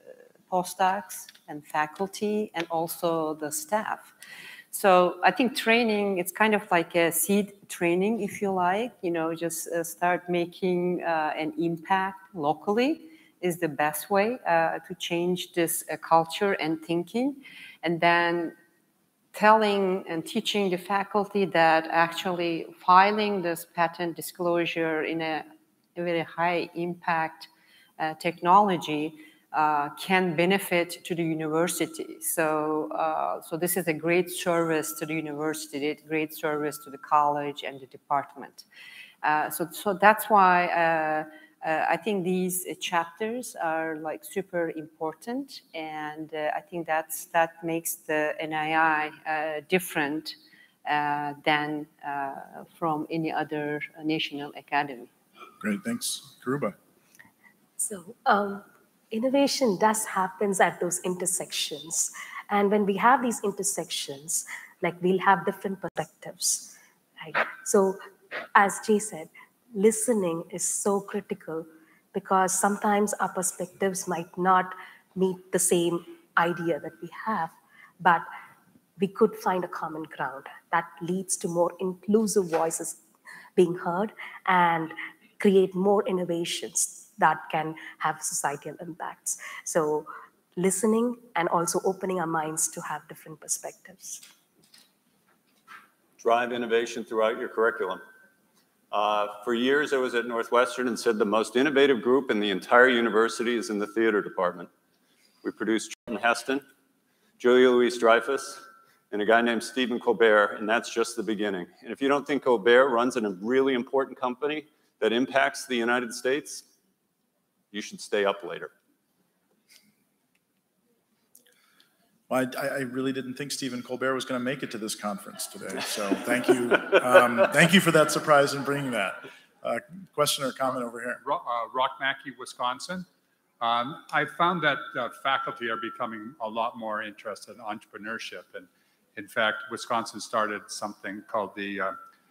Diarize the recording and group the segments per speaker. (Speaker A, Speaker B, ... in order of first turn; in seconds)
Speaker A: 0.5-4.1, 4.7-18.6, 19.3-38.6, 39.2-55.1
Speaker B: 55.6-56.8, 122.3-131.2
Speaker C: 57.8-68.0, 68.5-78.3, 79.0-83.0, 83.6-94.2
Speaker D: 96.2-98.0, 98.9-104.7, 105.4-106.6, 107.4-116.7, 117.7-118.7
Speaker E: 131.2-133.1, 133.6-142.0